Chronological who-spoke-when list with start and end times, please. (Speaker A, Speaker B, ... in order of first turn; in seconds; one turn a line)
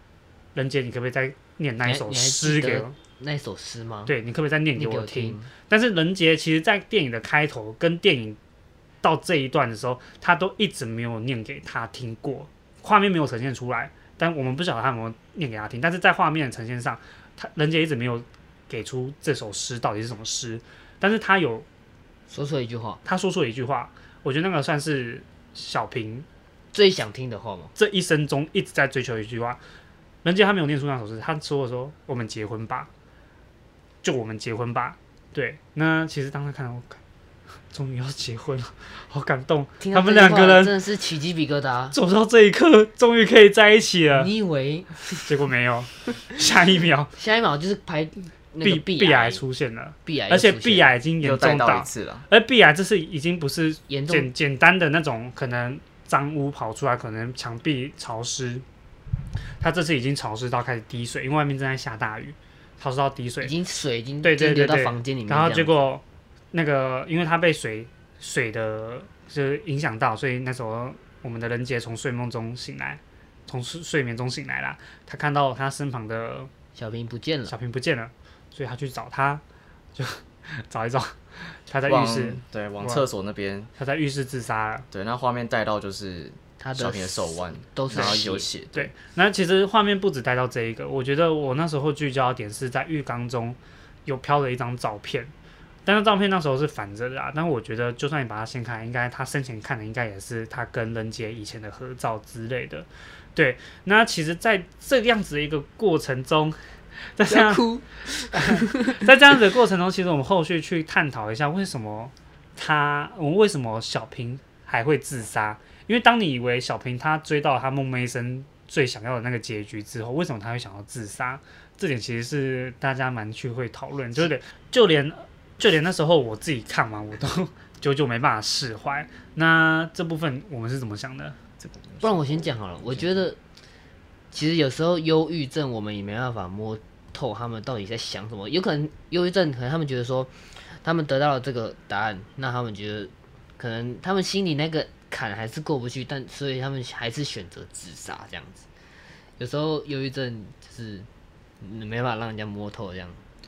Speaker A: 0.5-3.0
Speaker B: 1.9-4.1
Speaker A: 4.1-8.4
Speaker B: 4.7-5.5
Speaker A: 9.0-21.6
Speaker B: 22.3-23.0
Speaker A: 23.0-26.2
Speaker B: 26.7-27.7
Speaker A: 27.8-29.6
Speaker A: 30.2-32.9
Speaker A: 34.0-37.0
Speaker A: 37.7-40.8
Speaker B: 39.8-42.0
Speaker A: 41.9-44.3
Speaker B: 44.1-45.3
Speaker A: 45.2-47.1
Speaker B: 47.2-49.4
Speaker A: 48.6-58.6
Speaker B: 50.0-50.9
Speaker C: 51.2-52.2
Speaker B: 53.9-54.3
Speaker A: 59.6-63.5
Speaker B: 63.4-65.8
Speaker A: 64.2-66.0
Speaker A: 66.5-76.5
Speaker B: 76.7-77.5
Speaker A: 77.5-79.4
Speaker A: 80.0-83.0
Speaker C: 81.9-83.7
Speaker A: 83.8-84.9
Speaker C: 84.9-88.9
Speaker B: 86.6-88.5
Speaker A: 87.9-88.2
Speaker A: 88.7-95.3
Speaker A: 95.8-106.6
Speaker A: 107.1-107.7
Speaker B: 107.3-109.1
Speaker A: 108.3-131.4
Speaker C: 131.6-133.1
Speaker B: 132.0-133.4
Speaker B: 134.3-148.7
Speaker B: 149.4-151.1
Speaker B: 151.6-153.2